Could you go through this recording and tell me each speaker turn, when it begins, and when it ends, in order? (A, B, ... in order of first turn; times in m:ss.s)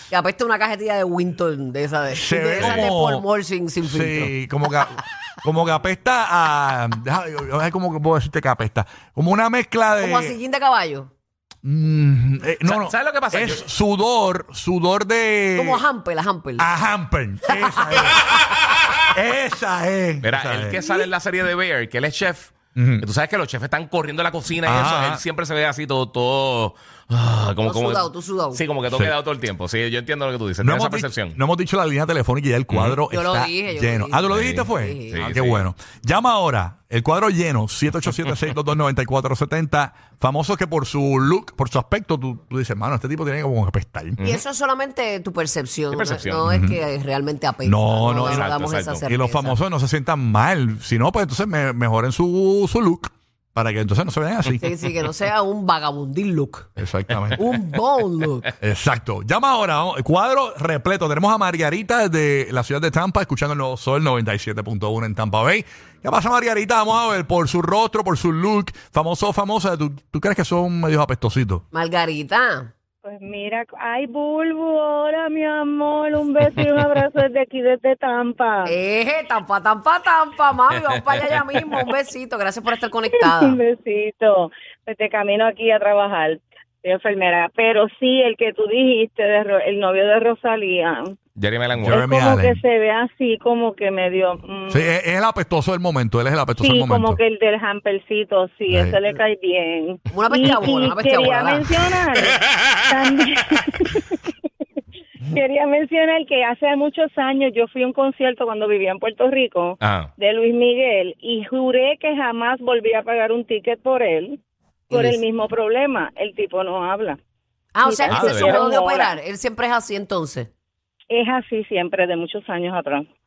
0:00.1-0:04.3 A
0:02.1-0:03.2 B
0:03.8-0:10.4 B
0:10.0-0:11.1 A
0:11.6-0:15.8 B
0:12.6-0:13.6 C
0:15.6-0:16.7 A
0:16.6-0:18.2 B
0:17.9-0:18.4 A
0:19.1-0:20.8 B
0:20.2-0:31.4 C
0:22.8-0:23.1 B
0:24.6-0:25.2 B
0:27.6-0:28.6 A
0:30.6-0:44.2 B
0:32.7-0:33.0 C
0:33.1-0:35.3 A
0:34.3-0:35.7 C
0:44.2-0:49.6 A
0:45.9-0:46.4 C
0:46.5-0:46.8 B
0:47.6-0:54.6 B
0:48.2-0:49.1 C
0:54.6-0:56.7 A
0:56.8-0:57.4 B
0:57.4-0:58.5 A
0:58.6-1:11.6 B
1:11.7-1:12.7 A
1:13.0-1:18.8 D
1:18.6-1:23.6 A
1:23.1-1:31.2 D
1:31.4-1:32.0 C
1:31.8-1:32.6 B
1:31.9-1:34.9 D
1:34.7-1:37.2 B
1:36.6-1:44.2 D
1:38.7-1:39.0 B
1:40.1-1:41.7 A
1:45.3-1:54.4 D
1:49.8-1:50.1 C
1:54.9-1:57.2 D
1:54.9-1:55.2 A
1:57.8-2:00.5 A
1:57.8-1:59.2 D
1:58.1-1:58.6 C
2:01.1-2:03.0 D